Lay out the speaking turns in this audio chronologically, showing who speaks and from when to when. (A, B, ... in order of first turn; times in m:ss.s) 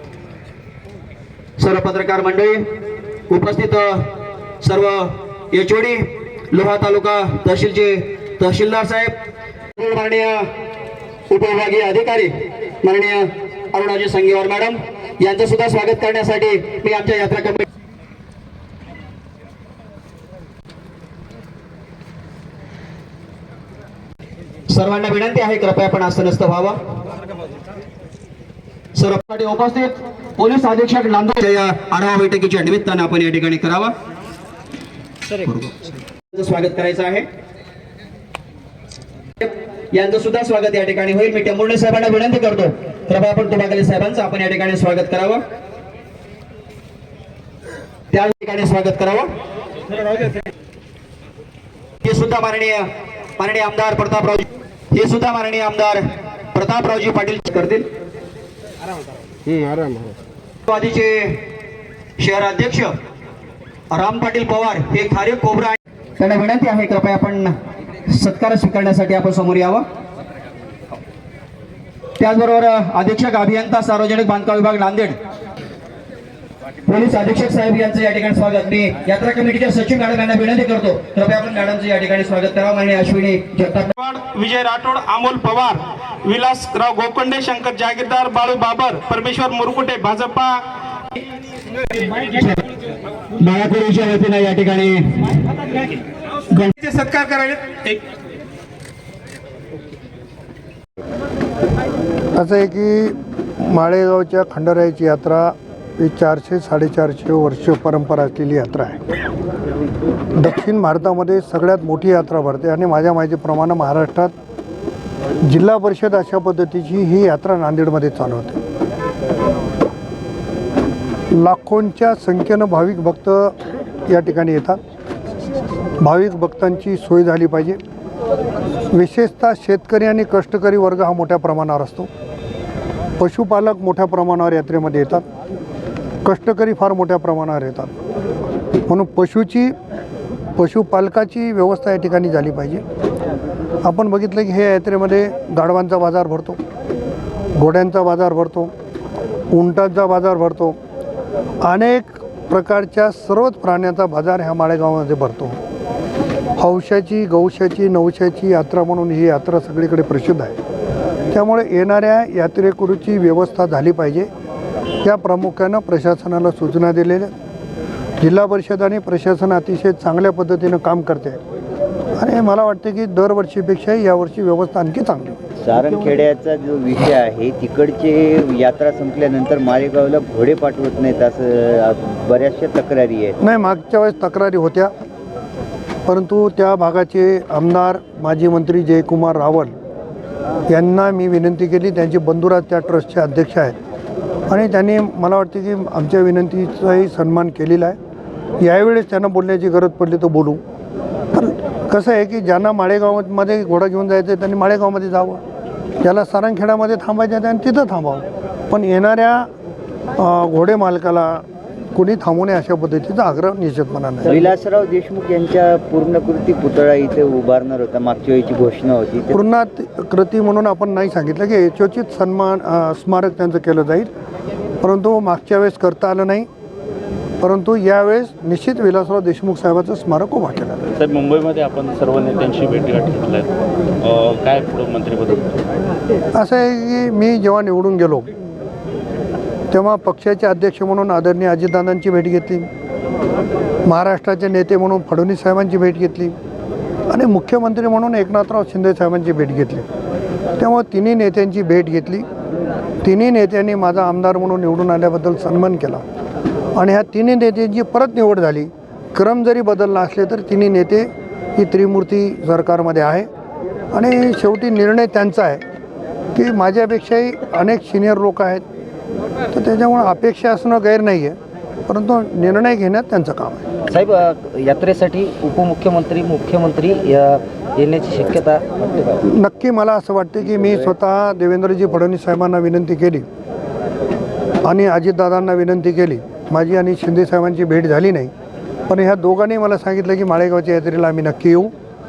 0:01.6-0:02.6 A
0:03.3-0:04.0 A
0:04.6-0:09.1 A
0:09.8-0:10.5 A
0:11.3-0:17.6 A
0:24.7-0:26.8 A
0:28.9-0:33.9 A
0:35.4-0:35.8 A
0:36.3-0:37.2 A
0:39.4-0:45.4 A
0:48.1-0:49.3 A
0:52.0-0:52.9 A
0:53.4-0:57.9 A
1:00.7-1:01.4 A
1:02.2-1:02.9 A
1:03.9-1:07.5 A
1:08.1-1:09.8 A
1:12.2-1:15.2 A
1:16.8-1:23.9 A
1:23.9-1:30.6 B
1:32.3-1:32.6 A
1:33.4-1:35.3 A
1:36.7-1:38.0 B
1:42.4-1:49.1 C
1:50.3-1:54.3 C
1:55.4-1:58.6 C
2:01.3-2:03.5 C
2:04.1-2:04.8 C
2:06.0-2:07.8 C
2:08.9-2:12.1 C
2:13.2-2:15.2 C
2:16.2-2:17.9 C
2:18.9-2:19.7 C
2:20.6-2:22.8 C
2:23.8-2:26.6 C
2:27.5-2:28.7 C
2:29.5-2:30.8 C
2:31.6-2:35.6 C
2:36.6-2:40.6 C
2:41.3-2:44.3 C
2:45.0-2:47.3 C
2:48.2-2:51.4 C
2:52.2-2:55.3 C
2:55.6-3:03.4 D
3:03.4-3:04.9 C
3:06.0-3:09.7 C
3:10.7-3:13.8 C
3:14.5-3:18.0 C
3:18.6-3:20.6 C
3:21.3-3:25.4 C
3:26.0-3:29.5 C
3:30.2-3:34.4 C
3:34.2-3:39.4 D
3:39.3-3:44.1 C
3:44.8-3:46.5 C
3:47.4-3:50.8 C
3:51.0-3:53.5 E
3:54.0-3:55.6 E
3:56.3-3:58.3 C
3:59.7-4:02.7 C
4:03.8-4:06.3 C
4:07.1-4:09.8 C
4:10.6-4:12.2 C
4:13.0-4:16.0 C
4:16.7-4:23.3 C
4:23.9-4:25.6 C
4:26.3-4:28.6 C
4:29.5-4:33.6 C
4:33.9-4:39.1 F
4:39.2-4:43.2 C
4:44.6-4:48.3 C
4:48.9-4:51.7 C